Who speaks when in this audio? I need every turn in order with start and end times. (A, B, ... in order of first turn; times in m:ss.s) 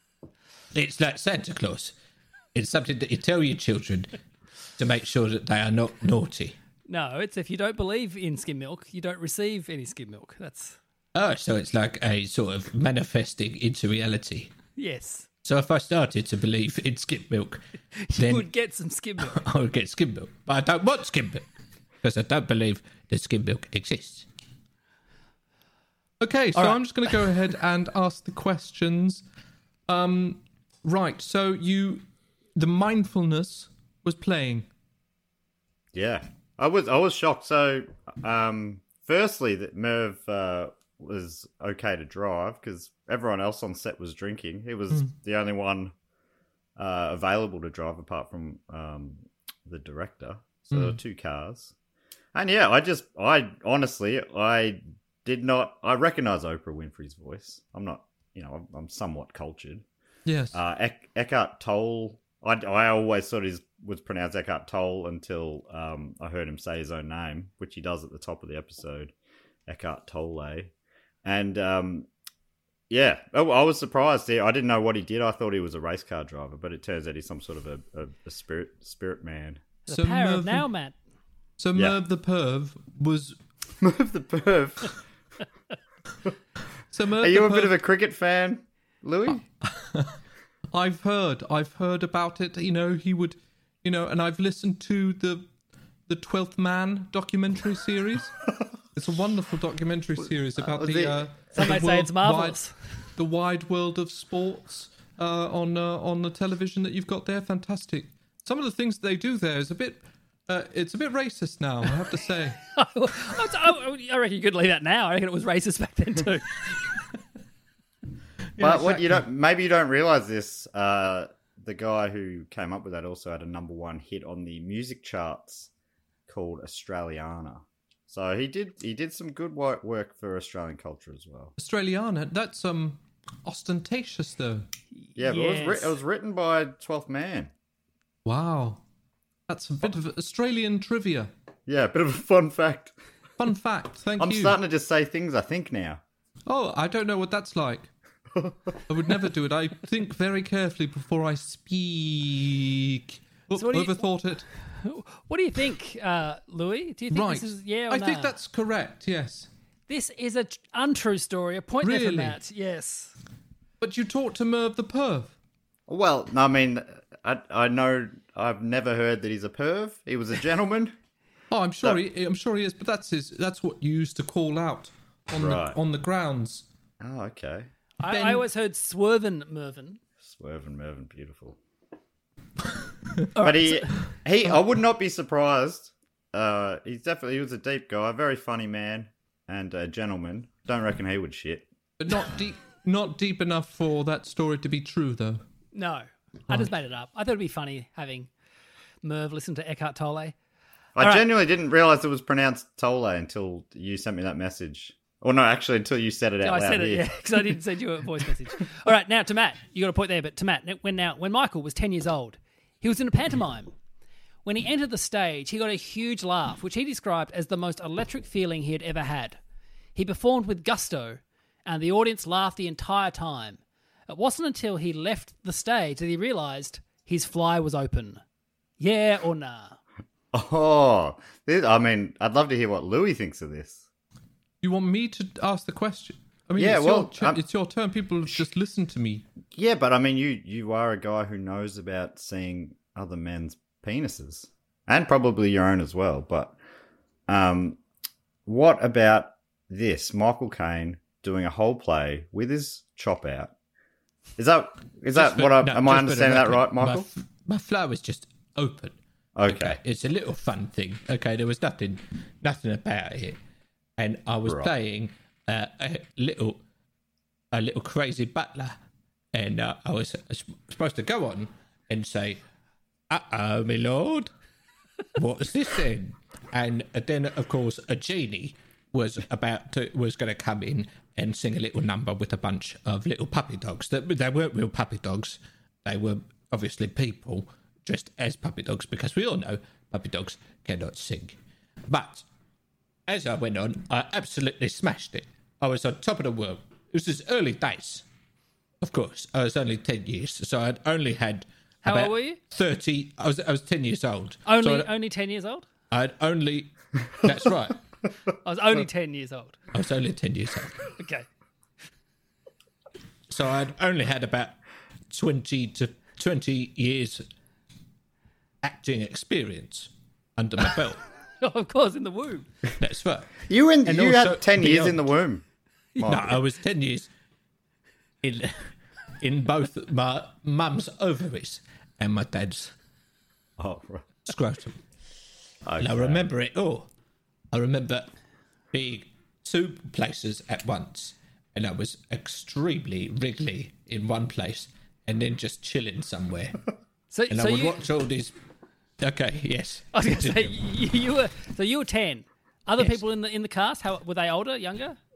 0:00.7-0:01.9 A
0:02.5-0:04.1 A
0:04.8-0:06.6 A
0:06.9-0:10.8 B
0:11.1-0:14.5 A
0:14.8-0:15.3 B
0:15.4-0:17.6 A
0:18.0-0:19.4 B
0:18.2-0:18.5 A
0:19.2-0:21.4 A
0:22.0-0:24.3 A
0:26.2-0:29.2 C
0:26.5-0:27.1 B
0:29.9-0:32.0 C
0:32.6-0:34.7 C
0:35.9-0:45.9 D
0:44.9-0:45.2 C
0:46.8-0:51.7 D
0:50.7-0:51.0 C
0:52.3-0:59.8 D
1:00.2-1:00.6 C
1:00.5-1:09.1 D
1:09.7-1:10.7 D
1:11.2-1:12.1 D
1:12.9-1:19.6 D
1:19.8-1:20.9 B
1:19.9-1:20.7 C
1:21.6-1:23.4 C
1:21.7-1:22.0 D
1:23.8-1:25.0 D
1:26.9-1:27.8 C
1:27.2-1:29.4 D
1:30.7-1:35.5 C
1:36.1-1:38.3 C
1:38.9-1:42.6 C
1:40.6-1:41.2 D
1:41.5-1:42.7 B
1:43.2-1:52.6 C
1:52.7-1:56.6 B
1:58.6-2:05.7 D
1:58.6-1:59.2 C
2:06.3-2:11.5 D
2:11.6-2:14.7 C
2:15.0-2:15.9 B
2:15.2-2:17.5 D
2:18.2-2:18.8 C
2:19.5-2:21.3 C
2:21.7-2:23.0 D
2:23.4-2:24.6 C
2:24.2-2:26.0 D
2:26.5-2:27.9 C
2:28.9-2:34.4 C
2:33.5-2:34.1 B
2:34.8-2:38.4 B
2:37.1-2:39.5 C
2:39.9-2:43.1 B
2:41.8-2:42.4 C
2:43.8-2:45.3 C
2:45.9-2:50.9 D
2:51.5-2:56.7 C
2:55.3-2:55.8 D
2:57.0-2:57.7 D
2:58.0-3:00.0 B
2:58.0-2:58.4 C
3:00.2-3:01.6 D
3:03.4-3:04.0 B
3:03.4-3:11.7 D
3:12.0-3:15.4 C
3:15.7-3:18.3 B
3:19.0-3:20.3 B
3:21.0-3:27.1 D
3:21.0-3:21.2 B
3:26.4-3:33.7 B
3:34.4-3:39.4 B
3:39.9-3:48.2 B
3:48.8-3:49.8 B
3:50.3-3:53.8 D
3:54.6-3:59.2 C
3:56.6-3:57.4 D
3:59.5-4:06.6 D
4:07.3-4:07.8 D
4:08.4-4:13.5 D
4:14.4-4:17.1 D
4:15.1-4:23.4 A
4:19.4-4:19.8 D
4:24.0-4:26.6 A
4:27.5-4:28.7 A
4:29.3-4:32.4 A
4:33.1-4:34.3 A
4:35.2-4:51.4 A
4:51.9-4:52.2 A
4:53.1-4:58.0 A
4:58.8-5:04.9 A
5:01.8-5:02.4 B
5:04.4-5:05.6 B
5:05.9-5:06.7 A
5:07.2-5:07.8 A
5:08.4-5:09.6 B
5:09.7-5:10.7 A
5:11.0-5:11.2 B
5:13.3-5:14.5 A
5:15.1-5:17.2 A
5:18.6-5:21.0 A
5:21.4-5:22.5 B
5:22.8-5:23.3 A
5:23.4-5:25.4 D
5:23.8-5:25.0 A
5:26.0-5:26.4 D
5:26.0-5:27.1 A
5:28.2-5:28.6 A
5:29.2-5:32.7 A
5:33.6-5:34.0 D
5:34.2-5:34.8 A
5:35.6-5:36.3 D
5:35.8-5:36.9 A
5:37.5-5:38.1 A
5:38.7-5:46.6 A
5:47.1-5:47.9 B
5:47.3-5:48.3 A
5:49.0-5:50.6 A
5:49.9-5:55.0 B